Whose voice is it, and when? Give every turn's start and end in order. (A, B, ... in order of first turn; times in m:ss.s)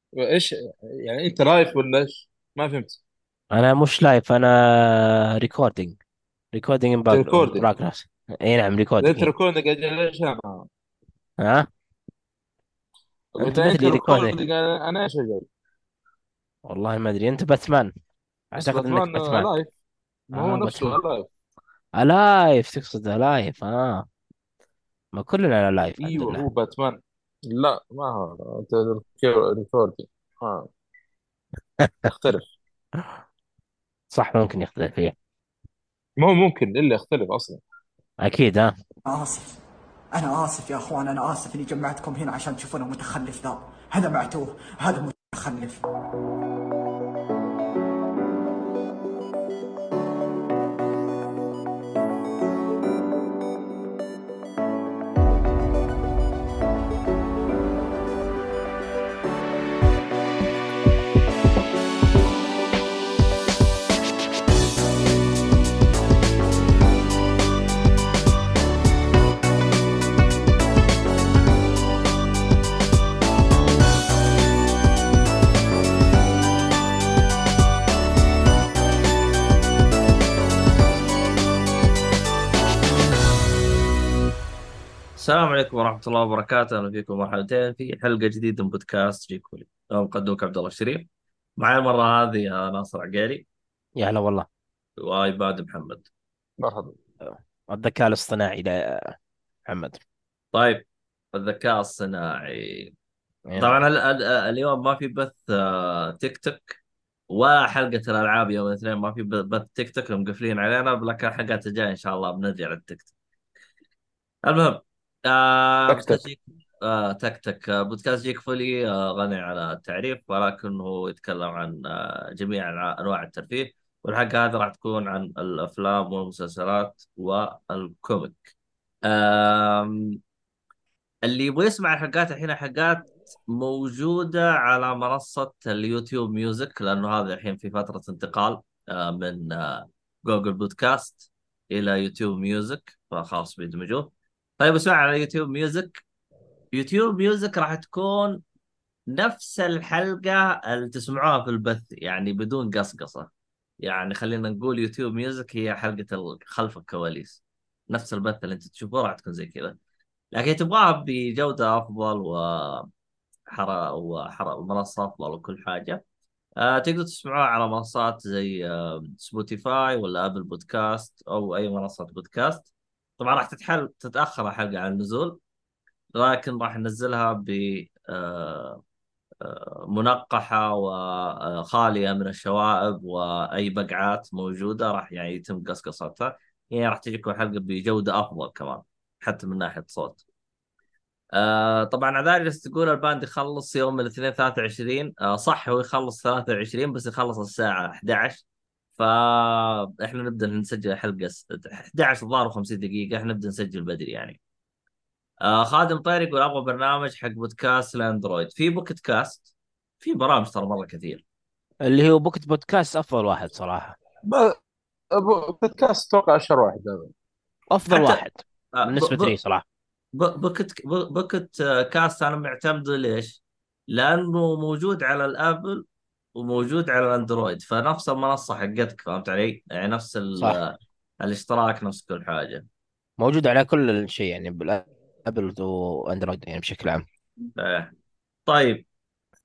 0:00.2-0:03.0 A
0:03.5-0:06.0 B
0:06.5-0:09.3 B
0:07.1-0:07.7 A
0:09.0-0:10.7 A
0:11.4-0:11.7 B
0:13.4-0:15.5 A
0:13.4-0:14.4 B
0:16.7-0:17.9 B
0:18.5-0:19.5 B
0:18.6-0:19.7 A
0:20.3-0:21.3 A
0:20.4-0:21.0 B
0:22.0-0:24.1 B
0:25.1-0:26.4 B
0:26.0-0:30.7 A
0:31.8-0:32.1 B
0:32.1-0:32.5 A
0:34.1-0:35.1 B
0:36.2-0:37.6 A
0:38.2-0:38.7 B
0:39.1-0:39.6 C
0:40.1-0:45.8 C
1:25.2-1:33.4 D
1:34.0-1:34.5 B
1:35.0-1:36.1 D
1:36.6-1:37.0 A
1:37.3-1:39.2 B
1:39.7-1:40.0 B
1:40.5-1:42.9 D
1:43.5-1:43.8 B
1:43.6-1:46.8 D
1:47.3-1:53.1 D
1:54.4-2:08.5 D
1:55.9-1:56.2 A
2:09.0-2:10.2 D
2:11.2-2:26.0 D
2:26.7-2:28.4 D
2:29.1-2:33.3 D
2:33.8-2:39.8 D
2:40.3-2:42.9 D
2:43.5-2:46.0 D
2:46.6-2:52.7 D
2:53.2-2:55.4 D
2:56.1-2:58.8 D
2:59.4-3:10.2 D
3:11.4-3:18.4 D
3:19.0-3:24.4 D
3:25.4-3:29.5 D
3:30.0-3:31.2 D
3:31.9-3:34.0 B
3:34.3-3:34.6 A
3:35.2-3:37.1 A
3:37.7-3:39.6 B
3:37.9-3:38.2 D
3:38.7-3:39.4 D
3:40.2-3:43.4 D
3:43.9-3:45.8 D
3:46.4-3:52.7 D
3:53.2-3:57.1 B
3:57.6-3:57.9 D
3:58.5-3:58.8 D